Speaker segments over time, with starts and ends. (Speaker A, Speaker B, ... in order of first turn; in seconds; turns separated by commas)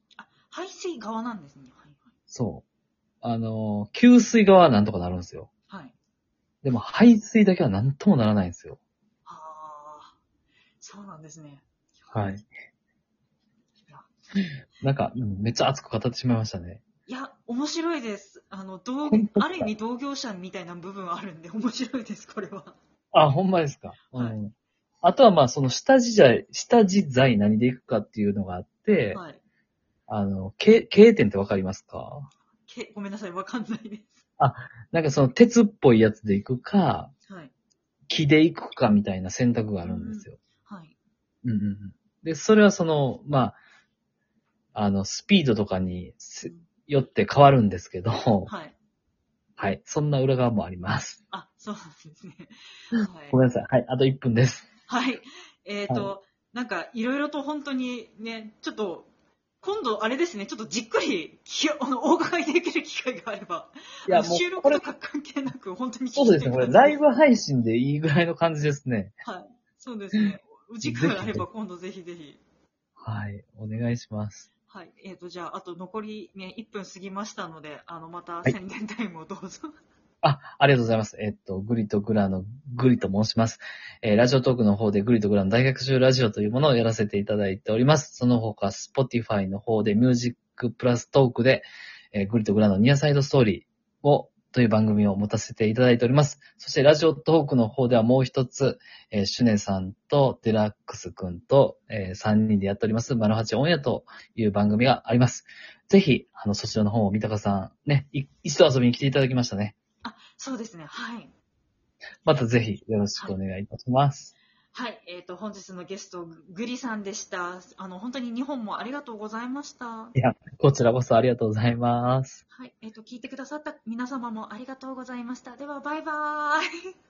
Speaker A: 0.1-2.1, Speaker B: 2.3-2.6, Speaker B: 3.2-5.5, Speaker B: 6.6-8.8, Speaker A: 9.2-10.1, Speaker A: 10.8-12.1, Speaker B: 12.1-12.5, Speaker A: 13.9-14.1, Speaker B: 14.3-16.8, Speaker A: 17.1-22.8, Speaker B: 19.1-19.7, Speaker B: 23.1-24.5, Speaker B: 25.0-29.2, Speaker A: 29.1-29.4, Speaker B: 30.1-32.3, Speaker A: 32.7-34.2, Speaker B: 34.4-37.1, Speaker A: 37.3-37.5, Speaker B: 38.1-40.4, Speaker A: 39.8-40.9, Speaker B: 41.4-43.6, Speaker B: 44.7-48.5, Speaker A: 48.5-48.7, Speaker B: 49.6-51.2, Speaker A: 51.3-53.4, Speaker B: 52.9-54.7, Speaker A: 54.9-59.1, Speaker B: 55.9-56.1, Speaker A: 59.6-67.0, Speaker B: 64.1-64.8, Speaker B: 66.1-69.1, Speaker A: 69.2-72.4, Speaker B: 70.8-71.5, Speaker B: 73.0-74.5, Speaker A: 74.7-79.7, Speaker B: 80.2-109.7, Speaker A: 110.0-111.3, Speaker B: 112.2-114.3, Speaker A: 114.7-120.1, Speaker B: 120.1-122.4, Speaker A: 122.5-126.7